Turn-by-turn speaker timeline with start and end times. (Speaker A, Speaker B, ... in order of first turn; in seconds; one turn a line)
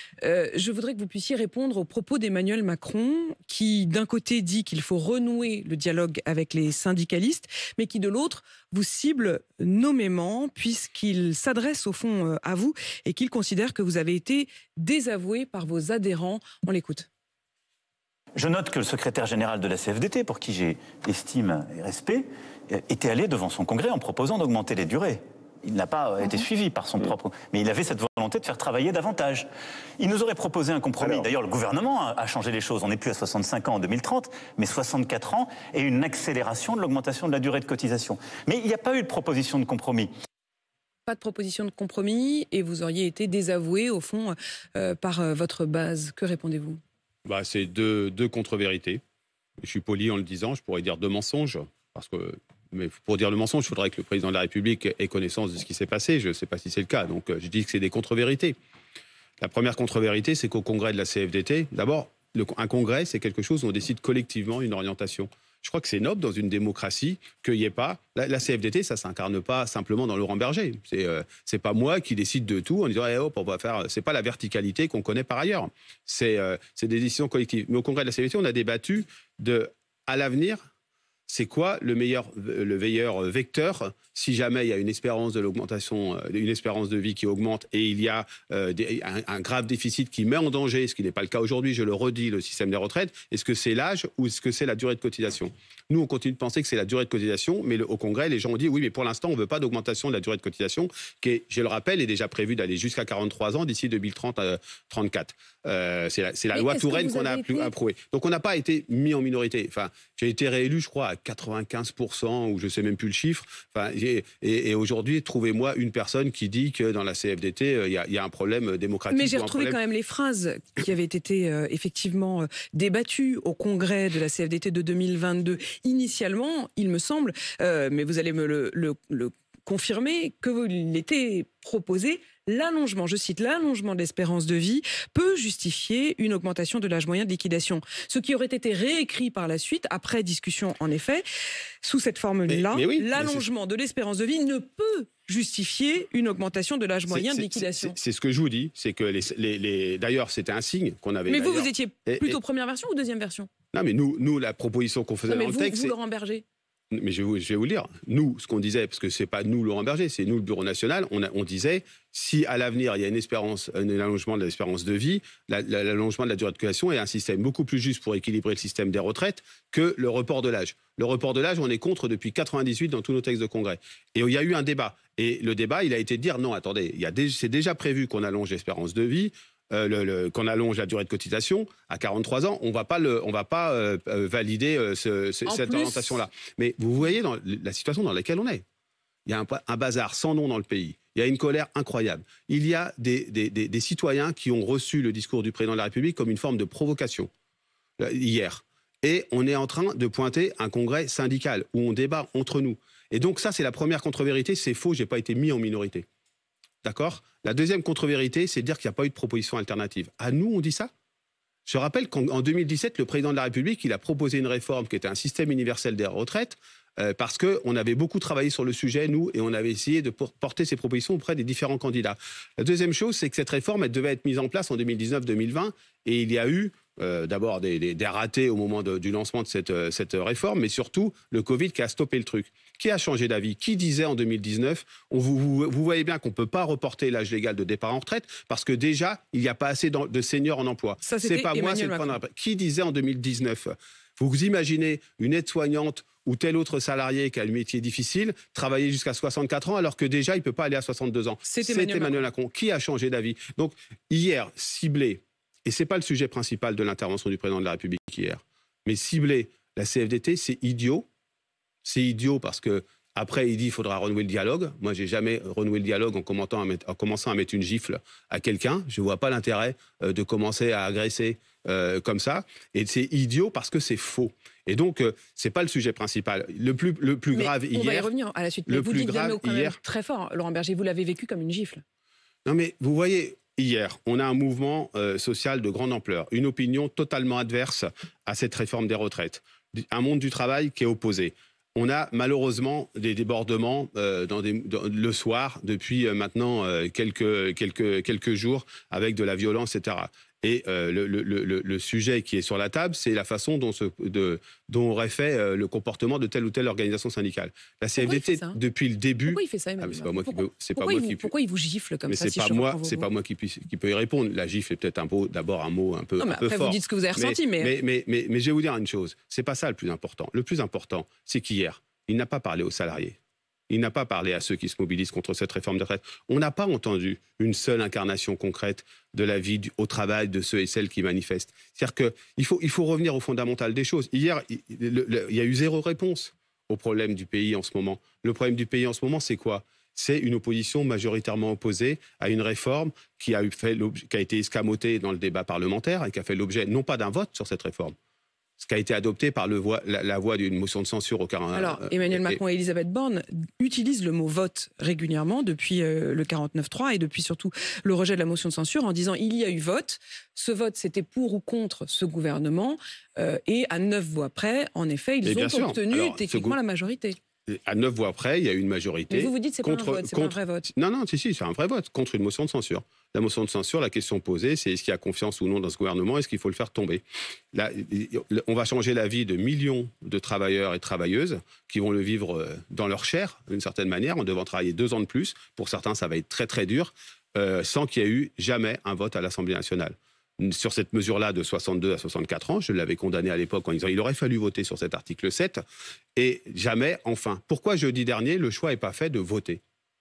Speaker A: 0.2-17.1
Speaker B: 18.4-40.1
Speaker A: 41.1-46.8
Speaker C: 47.2-49.0
Speaker C: 49.6-58.6
Speaker C: 59.4-80.7
Speaker C: 81.3-119.8
Speaker A: 106.5-107.7
Speaker A: 119.1-141.2
Speaker A: 141.8-148.0
Speaker C: 142.5-143.5
Speaker C: 147.1-152.4
Speaker A: 151.3-153.5
Speaker C: 153.7-155.9
Speaker A: 155.3-156.4
Speaker C: 156.9-188.6
Speaker A: 185.5-186.2
Speaker C: 189.3-197.3
Speaker C: 198.0-206.1
Speaker C: 206.8-210.9
Speaker C: 211.7-261.1
Speaker A: 241.0-242.2
Speaker A: 251.5-252.2
Speaker C: 261.9-278.1
Speaker A: 277.3-281.8
Speaker C: 278.7-279.8
Speaker C: 282.4-311.3
Speaker A: 308.0-308.6
Speaker A: 309.3-313.1
Speaker C: 312.1-323.2
Speaker A: 316.2-317.7
Speaker C: 323.7-348.0
Speaker C: 348.6-352.4
Speaker A: 351.5-367.2
Speaker C: 365.2-366.6
Speaker C: 367.5-395.6
Speaker A: 369.1-370.7
Speaker C: 396.2-399.6